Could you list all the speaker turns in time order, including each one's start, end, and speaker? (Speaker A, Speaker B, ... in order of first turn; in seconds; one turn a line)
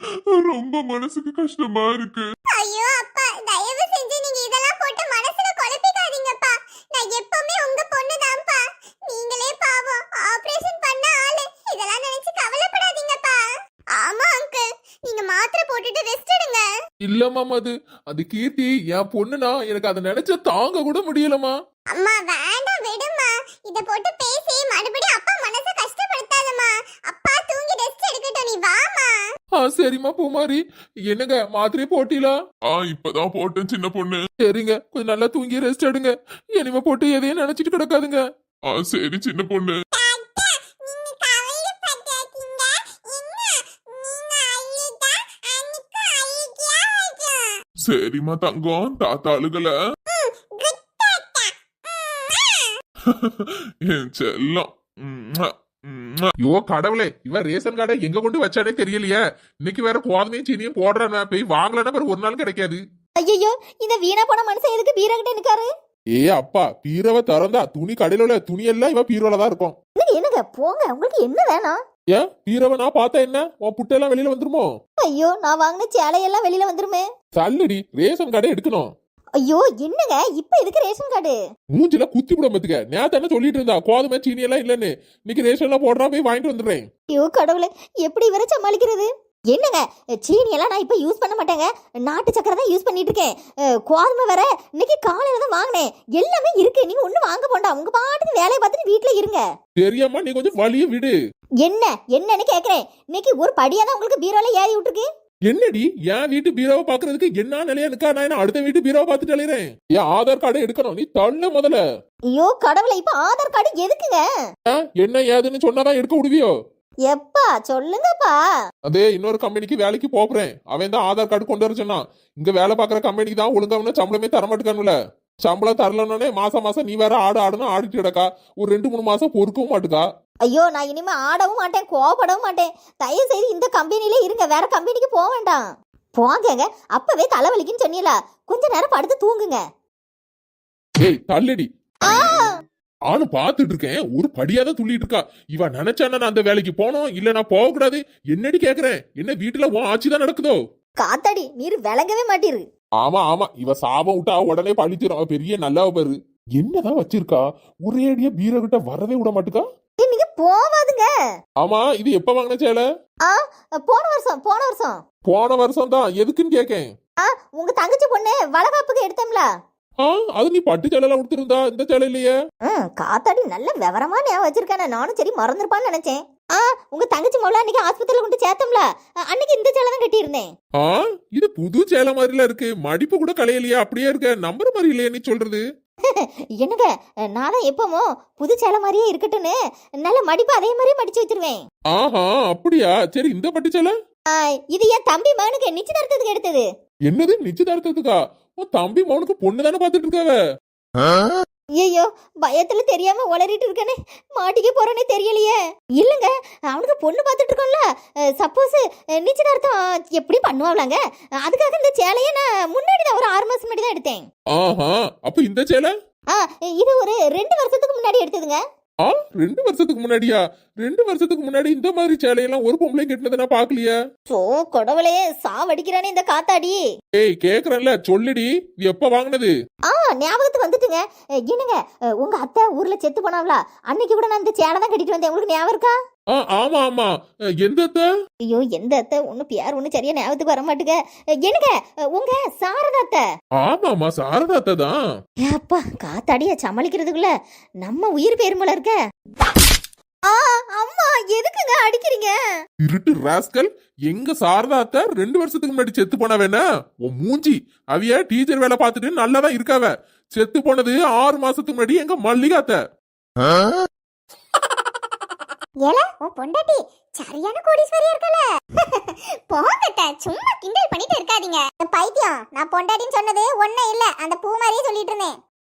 Speaker A: 0.3-2.3
Speaker B: 2.5-13.4
Speaker B: 13.9-16.7
Speaker C: 17.0-21.6
Speaker B: 21.9-29.1
Speaker C: 29.5-32.4
Speaker A: 32.7-34.2
Speaker C: 34.4-38.2
Speaker A: 38.7-39.8
Speaker B: 39.9-47.5
Speaker A: 47.8-49.7
Speaker B: 50.1-52.7
Speaker A: 53.1-56.3
Speaker C: 56.4-62.8
Speaker D: 63.2-65.7
Speaker C: 66.1-69.8
Speaker D: 70.0-71.8
Speaker C: 72.1-74.7
Speaker D: 75.0-77.0
Speaker C: 77.3-78.9
Speaker D: 79.4-81.4
Speaker C: 81.7-86.9
Speaker D: 87.1-93.3
Speaker D: 93.9-99.4
Speaker C: 99.8-101.2
Speaker D: 101.6-105.0
Speaker C: 105.5-111.8
Speaker D: 112.3-114.3
Speaker C: 114.7-116.5
Speaker D: 117.1-118.4
Speaker C: 118.9-130.0
Speaker D: 130.4-135.7
Speaker D: 136.2-139.6
Speaker C: 141.0-141.7
Speaker D: 142.1-142.5
Speaker C: 143.1-150.6
Speaker D: 151.0-152.6
Speaker C: 153.0-159.7
Speaker D: 160.0-161.1
Speaker C: 161.6-162.8
Speaker D: 163.3-165.0
Speaker C: 165.2-166.9
Speaker D: 167.2-169.5
Speaker C: 170.0-172.3
Speaker D: 172.7-180.5
Speaker C: 180.8-185.6
Speaker D: 186.1-191.6
Speaker C: 191.9-193.9
Speaker D: 194.3-196.7
Speaker C: 197.1-200.4
Speaker D: 201.8-207.8
Speaker D: 208.4-214.2
Speaker C: 214.5-215.9
Speaker D: 216.3-218.6
Speaker C: 219.0-223.9
Speaker D: 224.3-226.8
Speaker C: 227.2-229.5
Speaker D: 229.9-235.9
Speaker C: 236.3-238.0
Speaker D: 238.5-243.2
Speaker C: 243.6-245.0
Speaker D: 245.4-249.0
Speaker D: 250.3-252.4
Speaker C: 252.8-262.8
Speaker B: 265.8-275.4